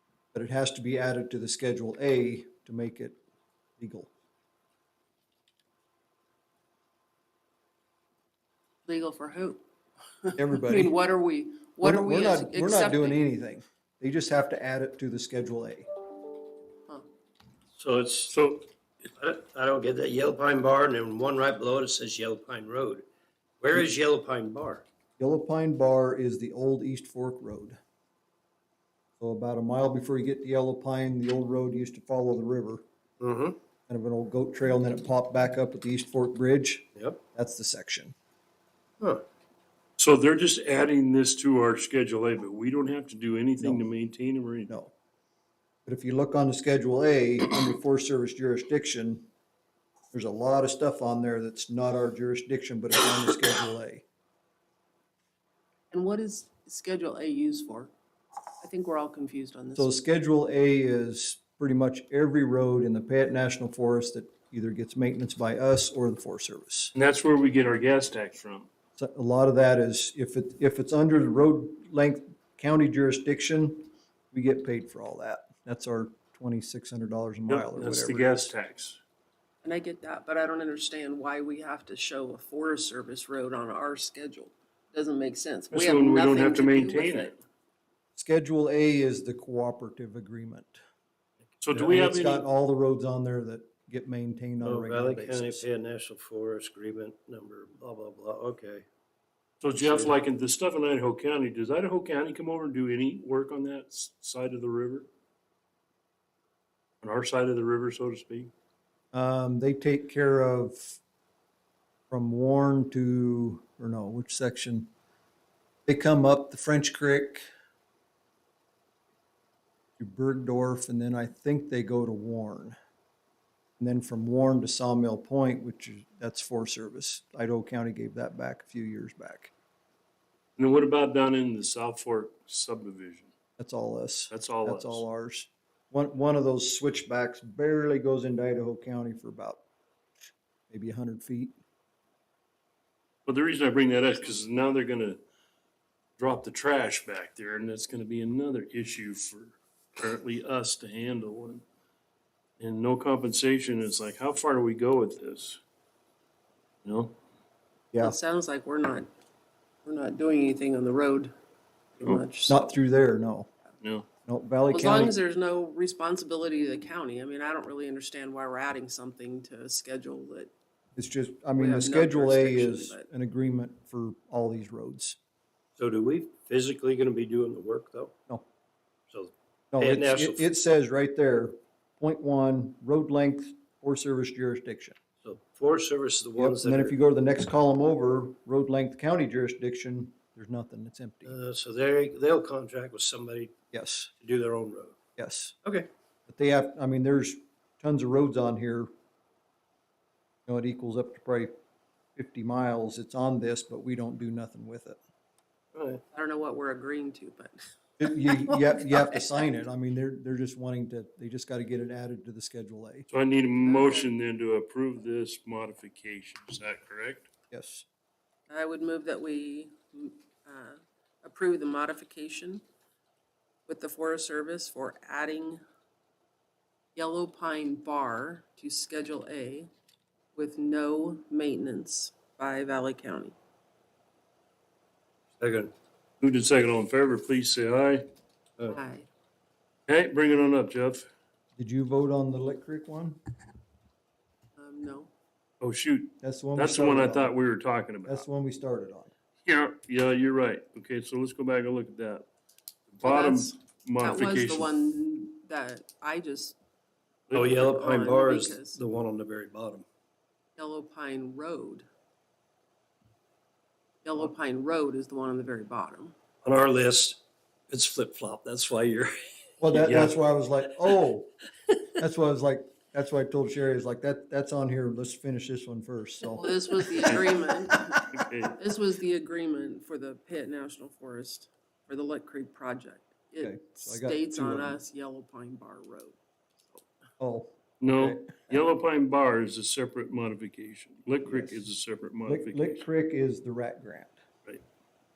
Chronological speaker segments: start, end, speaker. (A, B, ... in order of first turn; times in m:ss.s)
0:00.3-0:03.2 A
0:03.8-0:04.1 A
0:08.8-0:09.6 B
0:10.2-0:13.2 B
0:10.4-0:11.0 A
0:11.8-0:15.9 A
0:17.8-0:18.3 C
0:18.3-0:18.7 D
0:19.2-0:23.1 C
0:23.6-0:24.8 C
0:25.2-0:27.8 A
0:29.2-0:32.8 A
0:33.2-0:33.6 C
0:33.9-0:38.2 A
0:40.0-0:44.8 D
0:43.6-0:43.9 A
0:45.9-0:49.3 A
0:50.1-0:54.0 A
0:55.9-0:57.9 B
0:58.6-1:00.0 B
0:59.8-1:06.9 A
1:07.0-1:08.7 D
1:09.0-1:18.4 A
1:17.5-1:19.0 D
1:19.6-1:27.3 B
1:25.7-1:27.4 D
1:28.2-1:30.8 A
1:31.6-1:32.4 D
1:31.7-1:35.7 A
1:34.6-1:38.8 C
1:39.6-1:45.1 D
1:39.8-1:40.2 C
1:47.0-1:48.5 D
1:49.1-1:51.0 A
1:52.1-1:54.9 A
1:55.9-1:57.5 A
2:00.0-2:02.8 A
2:03.8-2:09.5 A
2:10.6-2:13.3 D
2:13.6-2:19.6 A
2:14.3-2:15.0 D
2:20.7-2:21.6 A
2:23.3-2:25.2 D
2:26.2-2:31.6 D
2:32.6-2:35.6 D
2:36.8-2:37.1 D
2:38.0-2:39.1 B
2:39.8-2:41.3 B
2:42.0-2:42.8 B
2:42.5-2:43.5 A
2:43.8-2:44.1 D
2:44.2-2:45.1 A
2:44.7-2:50.5 B
2:51.0-2:55.2 A
2:51.6-2:53.1 B
2:55.8-2:58.1 C
2:59.1-3:00.5 C
2:59.7-3:05.0 A
3:05.2-3:07.0 C
3:06.4-3:11.3 A
3:11.3-3:13.5 C
3:13.7-3:14.1 A
3:14.2-3:15.0 C
3:15.2-3:15.6 A
3:16.3-3:18.9 A
3:20.5-3:21.5 A
3:22.2-3:25.0 A
3:25.7-3:26.0 C
3:26.1-3:29.6 B
3:28.0-3:33.1 A
3:33.1-3:37.3 D
3:33.5-3:34.1 B
3:37.5-3:37.9 A
3:38.5-3:42.6 B
3:43.7-3:45.6 B
3:47.0-3:49.7 B
3:50.4-3:53.4 B
3:55.4-3:55.7 C
3:56.2-3:58.1 D
3:58.7-3:59.1 B
3:59.9-4:01.1 D
4:01.6-4:03.2 A
4:04.6-4:05.1 B
4:05.6-4:08.2 D
4:06.2-4:07.3 A
4:08.0-4:09.1 A
4:09.5-4:12.3 D
4:12.9-4:14.7 D
4:13.0-4:16.6 B
4:17.3-4:17.6 D
4:17.3-4:19.8 C
4:17.4-4:18.8 B
4:20.6-4:21.9 B
4:24.0-4:26.2 B
4:26.4-4:29.2 C
4:29.6-4:31.3 A
4:29.7-4:30.1 D
4:31.9-4:36.5 A
4:36.4-4:46.2 B
4:37.0-4:37.6 D
4:38.1-4:38.6 D
4:43.4-4:44.8 A
4:47.2-4:48.6 A
4:47.8-4:52.8 D
4:51.2-4:51.7 A
4:52.2-4:54.2 A